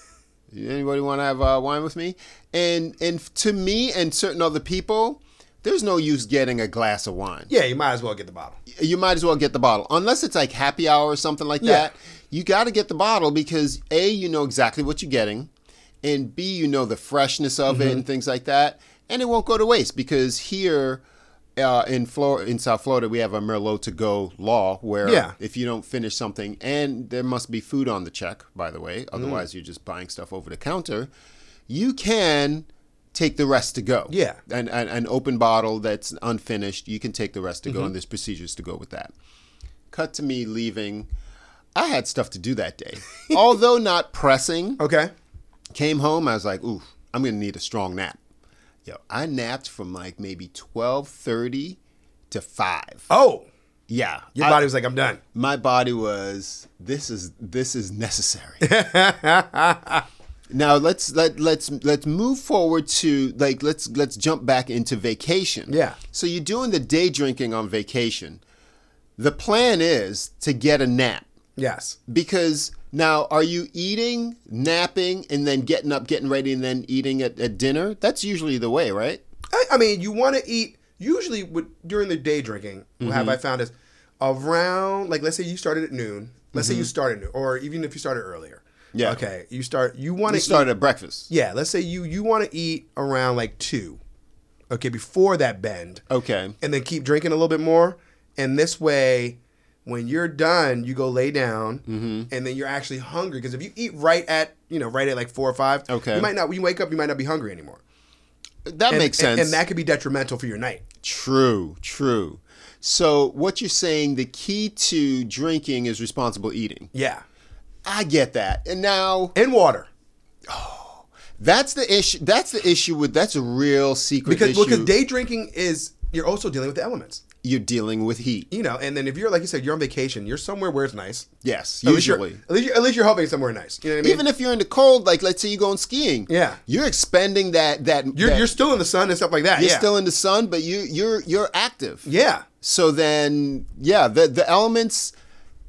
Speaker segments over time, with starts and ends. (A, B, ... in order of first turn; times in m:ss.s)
0:00.5-0:07.5 A
0:07.5-0:08.6 B
0:08.7-0:15.5 A
0:11.6-0:11.9 B
0:16.0-0:21.0 A
0:17.7-0:18.0 B
0:21.6-0:31.1 A
0:25.0-0:25.3 B
0:29.1-0:29.4 B
0:31.7-0:39.1 A
0:34.1-0:34.4 B
0:37.7-0:37.9 B
0:39.9-0:41.1 A
0:41.8-0:44.8 A
0:44.8-0:45.1 B
0:45.7-0:48.2 A
0:48.8-0:51.8 A
0:52.3-0:53.1 A
0:53.1-0:53.5 B
0:53.9-0:54.7 A
0:54.4-0:55.2 B
0:55.3-0:58.6 A
0:58.6-1:00.0 B
1:00.5-1:08.4 A
1:05.7-1:06.0 B
1:09.2-1:11.2 A
1:11.6-1:12.0 B
1:12.1-1:19.2 A
1:19.5-1:30.7 B
1:23.0-1:23.4 A
1:26.5-1:26.9 A
1:28.9-1:29.2 A
1:30.3-1:31.3 A
1:31.3-1:34.0 B
1:34.7-1:36.0 B
1:36.1-1:36.6 A
1:36.6-1:47.8 B
1:41.8-1:42.3 A
1:45.9-1:46.3 A
1:48.7-1:49.6 A
1:48.9-1:50.8 B
1:51.0-1:56.9 A
1:56.9-1:57.2 B
1:57.8-1:59.3 A
1:59.3-1:59.9 B
2:00.5-2:04.9 A
2:04.2-2:07.2 B
2:07.4-2:08.5 A
2:08.5-2:11.3 B
2:11.4-2:12.4 A
2:11.8-2:14.2 B
2:14.0-2:18.5 A
2:16.3-2:16.6 B
2:18.1-2:19.9 B
2:19.6-2:22.1 A
2:22.0-2:22.4 B
2:22.6-2:25.1 A